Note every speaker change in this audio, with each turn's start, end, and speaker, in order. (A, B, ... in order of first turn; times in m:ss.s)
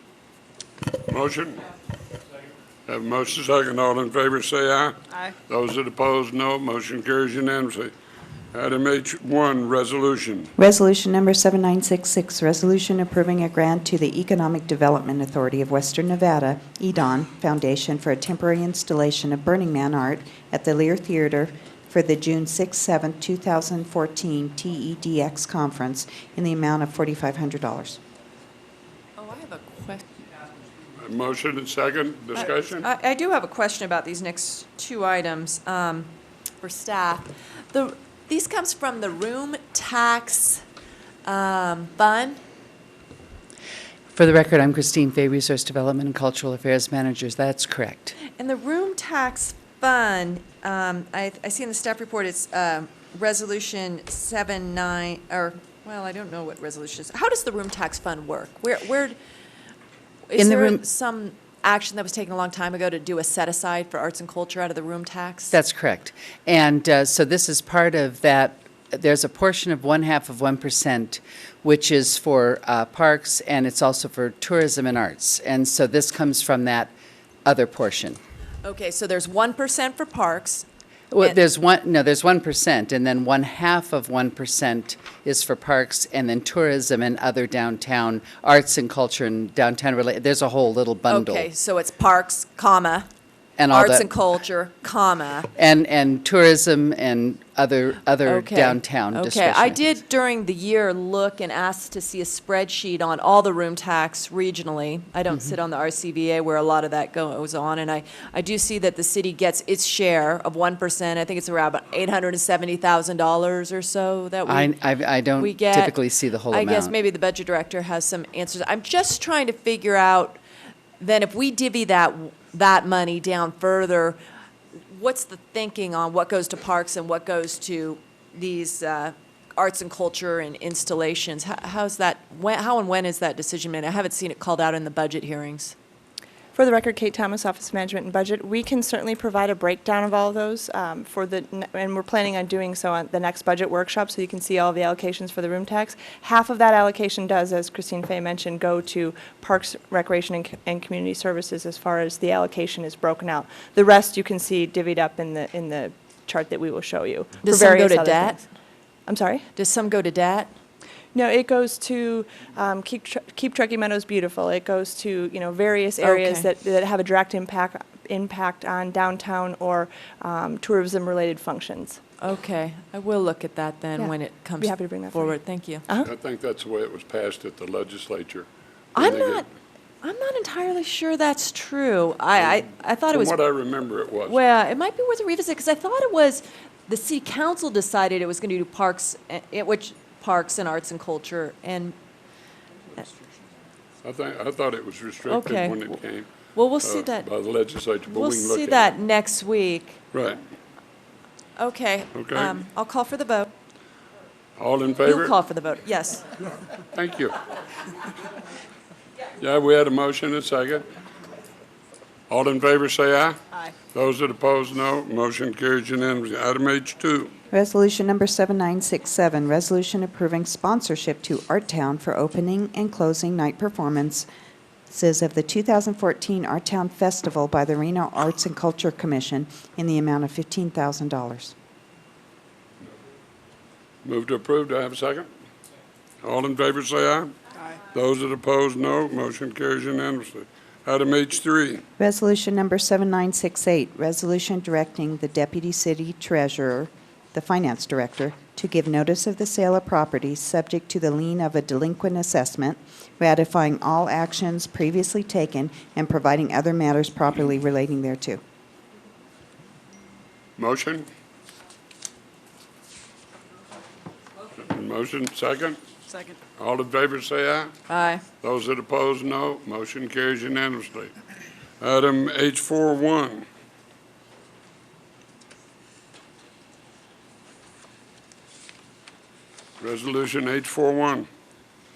0:01.1-0:01.6 A
0:02.9-0:07.9 A
0:08.5-0:10.5 A
0:10.6-0:28.0 B
0:29.2-0:30.0 C
0:31.0-0:32.8 A
0:32.4-0:40.6 C
0:41.2-0:42.4 C
0:44.1-0:48.1 D
0:48.3-0:59.2 C
1:00.3-1:05.6 C
1:00.4-1:00.8 D
1:05.5-1:16.9 D
1:17.4-1:18.2 D
1:18.6-1:20.7 C
1:21.1-1:31.5 D
1:31.1-1:33.1 C
1:33.6-1:34.1 D
1:33.7-1:35.5 C
1:35.6-1:39.9 D
1:38.2-1:54.8 C
1:54.4-1:56.9 D
1:55.4-1:56.0 C
1:56.5-2:00.4 C
2:01.0-2:04.2 C
2:04.9-2:15.7 C
2:16.5-2:38.4 E
2:37.4-2:38.5 C
2:39.1-2:39.4 E
2:39.5-2:40.5 C
2:41.1-2:52.0 E
2:46.0-2:46.5 C
2:52.2-2:55.8 C
2:54.0-2:56.1 E
2:56.0-2:59.4 A
2:59.0-2:59.4 C
3:00.0-3:03.4 C
3:03.1-3:04.4 A
3:04.2-3:12.0 C
3:14.0-3:16.3 A
3:15.3-3:16.0 C
3:16.5-3:17.3 C
3:16.8-3:18.9 A
3:18.1-3:20.0 C
3:20.1-3:20.4 A
3:21.6-3:23.5 C
3:22.1-3:22.6 A
3:24.6-3:25.4 A
3:25.0-3:26.2 C
3:26.9-3:27.3 A
3:29.4-3:30.8 A
3:32.3-3:33.4 A
3:33.9-3:37.3 A
3:37.5-3:44.3 B
3:44.9-3:51.5 B
3:54.0-3:55.3 A
3:56.2-3:57.3 A
3:57.9-4:01.8 A
4:02.0-4:18.4 B
4:20.6-4:21.1 A
4:24.6-4:25.8 A
4:26.6-4:27.7 A
4:27.9-4:28.2 C
4:28.4-4:31.1 A
4:31.8-4:33.4 A
4:39.8-4:41.3 A